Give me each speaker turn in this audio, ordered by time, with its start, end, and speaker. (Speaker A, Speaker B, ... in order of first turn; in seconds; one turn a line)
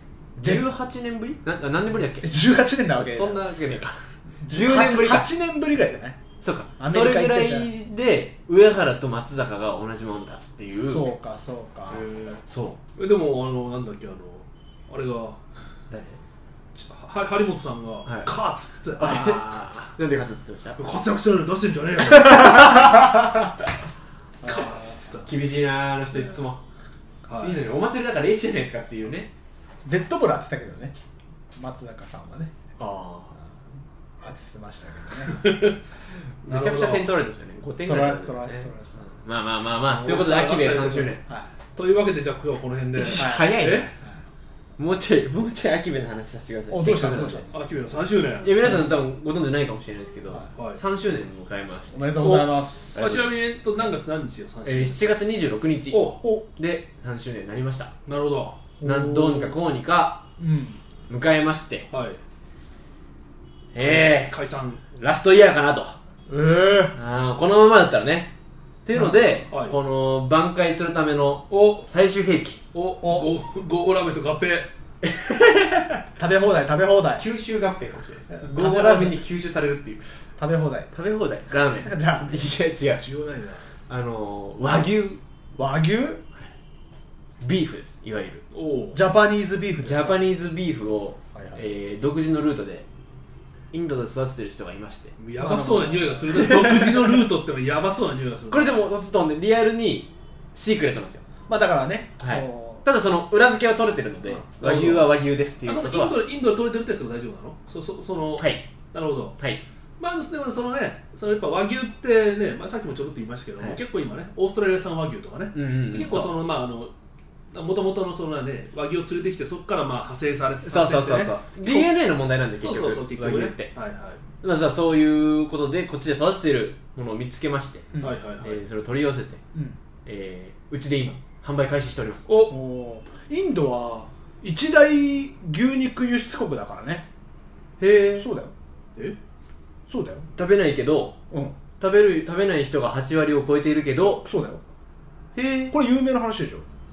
Speaker A: 0.4-2.3
Speaker B: 0.4-0.6
Speaker B: 2.2-3.4
Speaker A: 3.0-5.3
Speaker B: 4.4-6.2
Speaker A: 6.4-11.1
Speaker B: 6.8-7.7
Speaker B: 10.9-12.0
Speaker C: 11.9-12.4
Speaker A: 12.4-12.8
Speaker C: 12.9-15.4
Speaker A: 15.9-16.2
Speaker C: 16.8-19.2
Speaker A: 18.0-18.3
Speaker A: 19.0-20.8
Speaker B: 19.0-19.9
Speaker C: 20.8-22.9
Speaker A: 22.7-23.0
Speaker B: 24.4-24.9
Speaker C: 24.4-25.3
Speaker A: 25.2-26.6
Speaker C: 27.3-27.6
Speaker A: 27.4-29.3
Speaker B: 29.8-30.9
Speaker B: 31.6-32.5
Speaker A: 32.8-33.3
Speaker B: 34.2-35.4
Speaker C: 35.3-35.8
Speaker A: 36.4-41.2
Speaker C: 36.5-37.1
Speaker B: 37.8-39.1
Speaker C: 39.8-41.2
Speaker B: 41.3-41.5
Speaker C: 41.7-43.9
Speaker A: 43.0-43.9
Speaker B: 43.2-44.2
Speaker A: 44.8-47.5
Speaker B: 46.7-47.5
Speaker C: 47.5-48.8
Speaker A: 48.4-52.2
Speaker B: 51.9-53.1
Speaker C: 52.2-55.0
Speaker A: 52.9-53.3
Speaker A: 54.6-57.9
Speaker C: 55.9-56.2
Speaker C: 58.0-58.6
Speaker B: 58.8-59.6
Speaker A: 58.8-60.2
Speaker B: 60.4-60.8
Speaker A: 61.1-61.9
Speaker C: 61.9-62.2
Speaker A: 63.7-64.3
Speaker C: 63.8-64.8
Speaker A: 64.9-66.0
Speaker B: 66.3-67.0
Speaker A: 66.9-68.3
Speaker A: 68.8-72.6
Speaker B: 68.9-69.5
Speaker C: 71.5-71.9
Speaker C: 72.7-74.7
Speaker B: 73.0-73.3
Speaker A: 75.0-76.0
Speaker B: 76.2-77.2
Speaker A: 77.2-80.0
Speaker B: 78.5-79.2
Speaker B: 80.4-80.9
Speaker A: 80.9-83.0
Speaker B: 81.8-82.5
Speaker C: 83.0-83.6
Speaker A: 83.9-85.2
Speaker B: 85.5-86.2
Speaker A: 87.4-88.4
Speaker C: 88.5-89.0
Speaker B: 88.9-90.2
Speaker A: 89.8-92.8
Speaker B: 91.3-91.6
Speaker A: 93.7-95.1
Speaker C: 95.2-98.9
Speaker B: 95.4-96.7
Speaker A: 98.5-101.2
Speaker B: 101.5-102.8
Speaker A: 102.2-106.2
Speaker B: 104.2-104.5
Speaker C: 104.6-105.1
Speaker C: 105.6-109.4
Speaker A: 108.4-108.7
Speaker A: 109.4-109.6
Speaker C: 110.0-116.9
Speaker A: 115.5-116.3
Speaker C: 117.5-121.9
Speaker A: 120.6-123.7
Speaker C: 122.6-124.2
Speaker A: 124.4-129.4
Speaker C: 128.0-128.6
Speaker A: 130.1-132.3
Speaker C: 132.3-132.6
Speaker B: 132.5-137.1
Speaker A: 137.8-138.3
Speaker B: 138.1-138.5
Speaker B: 139.9-140.3
Speaker A: 140.3-141.2
Speaker B: 141.3-141.6
Speaker A: 141.8-144.2
Speaker B: 144.0-144.6
Speaker A: 145.3-145.8
Speaker B: 145.7-146.7